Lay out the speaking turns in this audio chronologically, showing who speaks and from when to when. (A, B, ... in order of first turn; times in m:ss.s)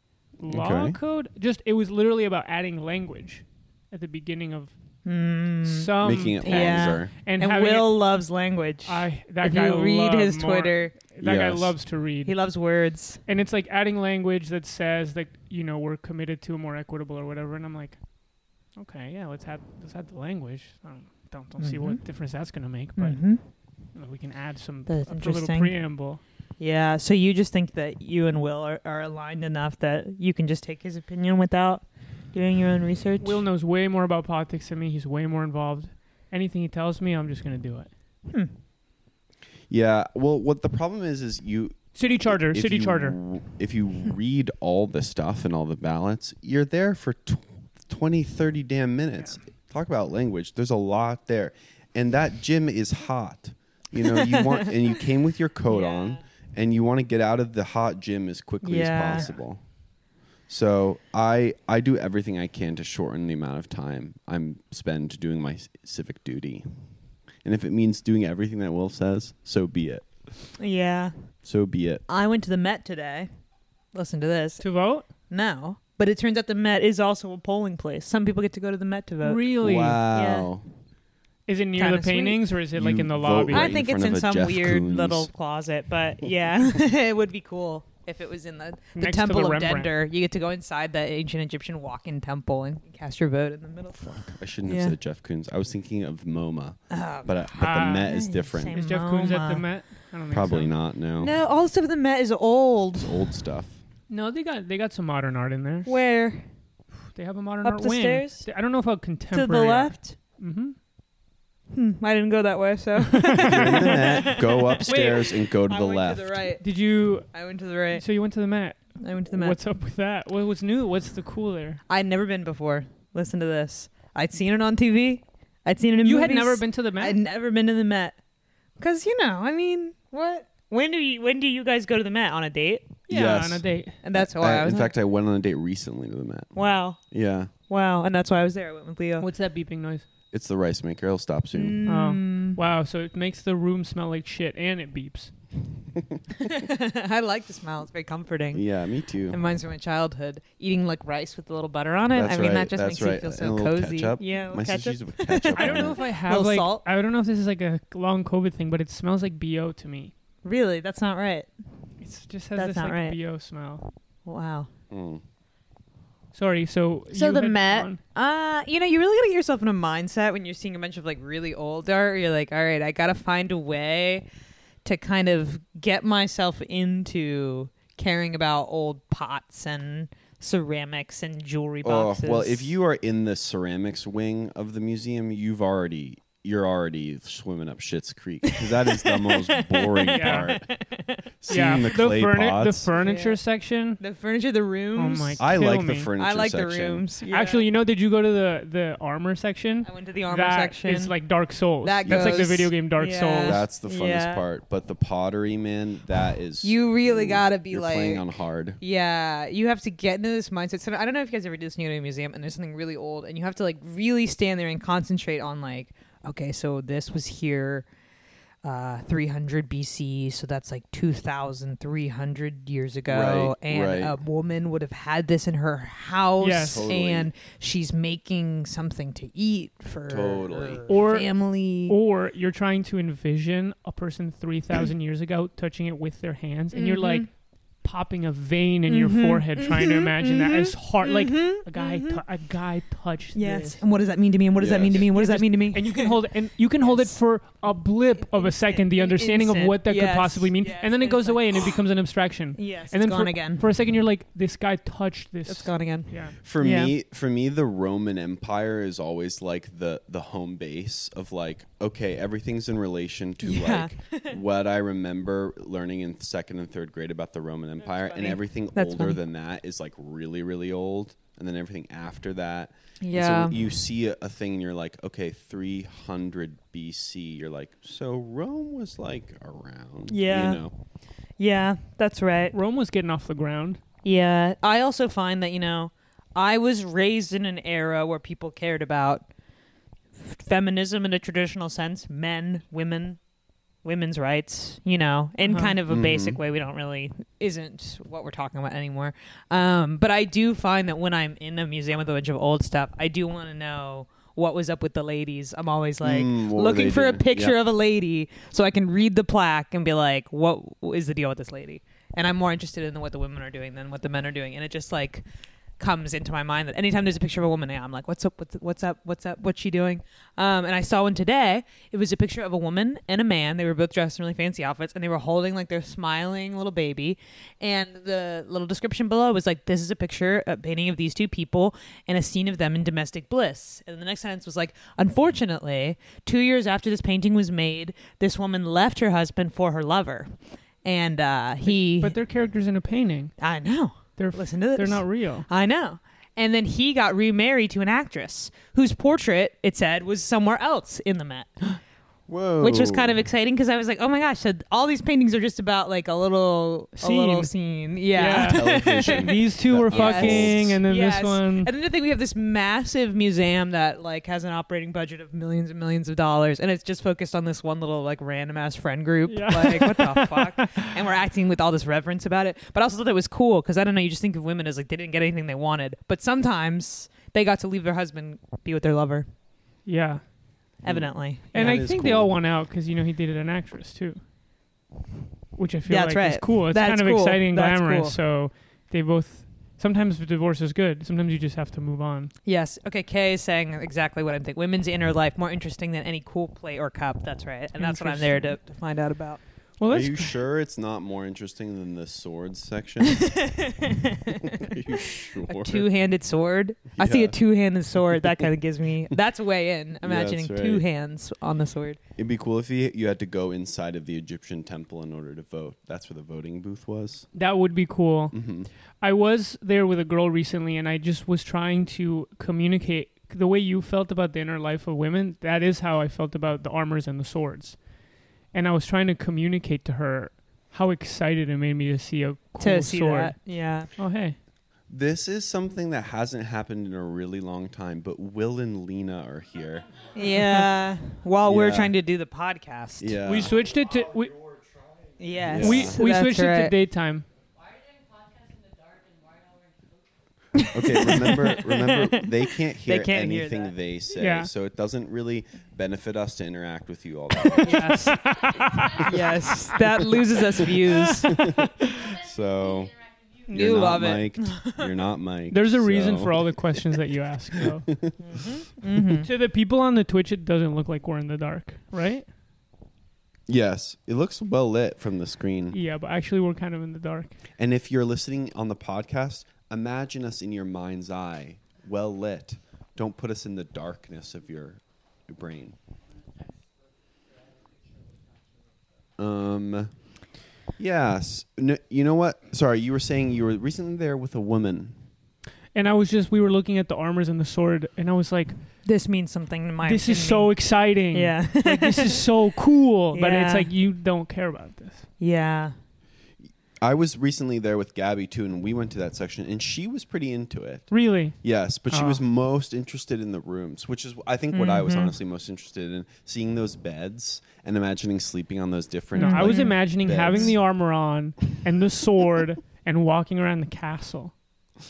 0:00.4-0:04.7 A
0:00.5-0:01.0 B
0:05.0-0:10.9 C
0:05.6-0:08.0 A
0:06.0-0:07.1 B
0:08.9-0:12.3 A
0:11.2-0:11.8 B
0:12.2-0:13.2 C
0:13.3-0:18.0 A
0:18.8-0:23.3 A
0:21.6-0:22.0 C
0:23.0-0:23.4 C
0:24.0-0:26.2 A
0:24.9-0:25.8 C
0:26.6-0:33.4 C
0:33.2-0:37.9 A
0:38.3-0:38.5 C
0:39.7-0:59.6 B
0:42.0-0:43.2 A
0:55.7-0:56.2 C
0:58.6-0:59.3 C
1:00.5-1:06.7 B
1:07.4-1:10.4 B
1:10.6-1:11.1 C
1:11.4-1:12.0 B
1:12.1-1:13.3 C
1:13.9-1:14.6 C
1:14.6-1:15.1 A
1:15.3-1:19.5 C
1:19.2-1:20.0 A
1:19.6-1:20.7 B
1:20.1-1:20.5 C
1:21.5-1:23.7 A
1:21.8-1:22.4 C
1:22.7-1:25.3 B
1:23.5-1:34.0 C
1:29.0-1:29.9 A
1:34.0-1:38.8 B
1:34.7-1:35.0 C
1:36.9-1:39.6 C
1:37.6-1:38.1 A
1:38.7-1:40.7 A
1:40.3-1:41.3 B
1:41.2-1:43.2 C
1:43.0-1:43.8 B
1:44.1-1:45.9 A
1:45.9-1:46.5 C
1:47.1-1:50.8 A
1:47.6-1:48.5 C
1:49.3-1:50.2 C
1:51.7-1:56.6 C
1:53.4-1:54.0 A
1:53.5-1:56.4 B
1:54.9-1:55.2 A
1:56.6-2:01.8 A
1:57.3-1:58.0 C
1:59.0-1:59.6 C
2:01.9-2:08.2 C
2:06.0-2:07.2 A
2:08.8-2:13.0 C
2:13.1-2:14.0 A
2:13.1-2:17.5 B
2:14.0-2:14.9 C
2:16.6-2:17.0 C
2:17.7-2:19.3 C
2:19.2-2:20.0 A
2:20.3-2:21.8 B
2:21.5-2:22.6 C
2:21.9-2:25.3 A
2:26.0-2:26.2 B
2:26.4-2:28.6 C
2:28.5-2:29.4 B
2:29.3-2:36.8 C
2:32.2-2:36.0 B
2:35.6-2:40.1 A
2:40.4-2:41.5 C
2:42.0-2:43.9 A
2:42.6-2:43.2 C
2:44.2-2:44.7 C
2:44.9-2:45.2 B
2:46.3-2:48.0 A
2:47.1-2:54.3 C
2:54.8-3:02.7 C
3:01.8-3:10.7 B
3:08.5-3:11.7 C
3:10.1-3:10.5 A
3:11.4-3:12.9 B
3:11.5-3:14.0 A
3:12.9-3:13.4 C
3:14.0-3:15.5 C
3:15.0-3:16.1 A
3:15.4-3:17.1 B
3:16.2-3:17.7 C
3:17.3-3:23.6 A
3:19.8-3:21.2 C
3:21.8-3:24.4 C
3:22.1-3:22.5 B
3:23.4-3:28.8 B
3:26.6-3:37.9 C
3:38.6-3:52.0 C
3:43.1-3:44.2 B
3:46.4-3:46.9 A
3:46.7-3:47.3 B
3:50.1-3:50.9 B
3:50.9-3:57.3 A
3:56.7-3:57.3 C
3:57.8-4:03.8 A
3:58.9-4:02.2 C
4:03.4-4:06.2 C
4:04.6-4:05.0 B
4:05.0-4:16.4 A
4:06.8-4:07.2 C
4:08.2-4:11.7 C
4:12.6-4:13.7 C
4:15.5-4:16.9 C
4:16.4-4:40.7 B
4:23.4-4:24.4 C
4:27.8-4:29.2 C
4:33.0-4:33.6 C
4:40.1-4:40.6 C
4:41.4-4:42.6 C
4:42.5-4:43.8 A
4:44.0-4:49.3 C
4:50.2-4:53.2 C
4:53.8-5:15.2 C
4:55.4-4:55.8 A
4:55.9-4:56.4 B
5:06.0-5:07.6 B
5:15.8-5:40.3 C
5:40.8-5:42.2 C
5:41.7-5:43.4 A
5:43.4-5:51.8 C
5:44.2-5:45.5 A
5:52.3-5:53.2 B
5:52.6-5:59.4 C
5:57.0-5:57.5 A
5:58.1-6:01.7 A
5:58.2-6:00.8 B
5:59.9-6:19.3 C
6:09.3-6:10.9 A
6:19.9-6:20.2 A
6:20.8-6:21.7 C
6:20.9-6:22.3 B
6:21.5-6:24.2 A
6:25.6-6:32.3 A
6:25.9-6:28.2 C
6:32.5-6:39.4 C
6:37.8-6:38.6 A
6:39.8-6:40.4 A
6:39.9-6:43.7 B
6:43.2-6:52.0 C
6:44.4-6:45.9 B
6:47.0-6:47.4 B
6:50.0-6:50.8 B
6:52.2-6:57.3 B
6:57.3-6:58.4 A
6:58.3-6:58.7 B
6:59.0-7:07.8 A
7:08.5-7:13.4 A
7:12.6-7:13.9 C
7:14.0-7:14.4 A
7:14.9-7:19.9 B
7:20.2-7:23.2 C
7:20.4-7:20.7 A
7:21.4-7:22.0 B
7:23.0-7:23.6 B
7:23.2-7:24.4 A
7:25.2-7:26.7 C
7:25.4-7:26.0 B
7:25.6-7:27.3 A
7:30.5-7:33.8 C
7:30.7-7:38.1 B
7:34.2-7:34.5 A
7:37.6-7:38.3 C
7:37.6-7:39.2 A
7:39.0-7:41.4 C
7:41.3-7:47.0 B
7:43.5-7:44.9 C
7:45.5-7:47.9 A
7:47.6-7:48.2 B
7:48.2-7:49.3 C
7:49.2-7:52.3 A
7:53.5-7:55.8 B
7:55.7-7:57.4 A
7:57.6-8:05.8 B
8:09.2-8:09.9 B
8:10.8-8:15.0 B
8:15.8-8:18.6 A
8:18.8-8:22.3 C
8:19.8-8:25.1 A
8:23.1-8:23.7 C
8:25.2-8:25.8 C
8:26.8-8:40.6 B
8:30.9-8:32.2 A
8:34.5-8:35.1 C
8:39.2-8:44.3 A
8:39.2-8:40.5 C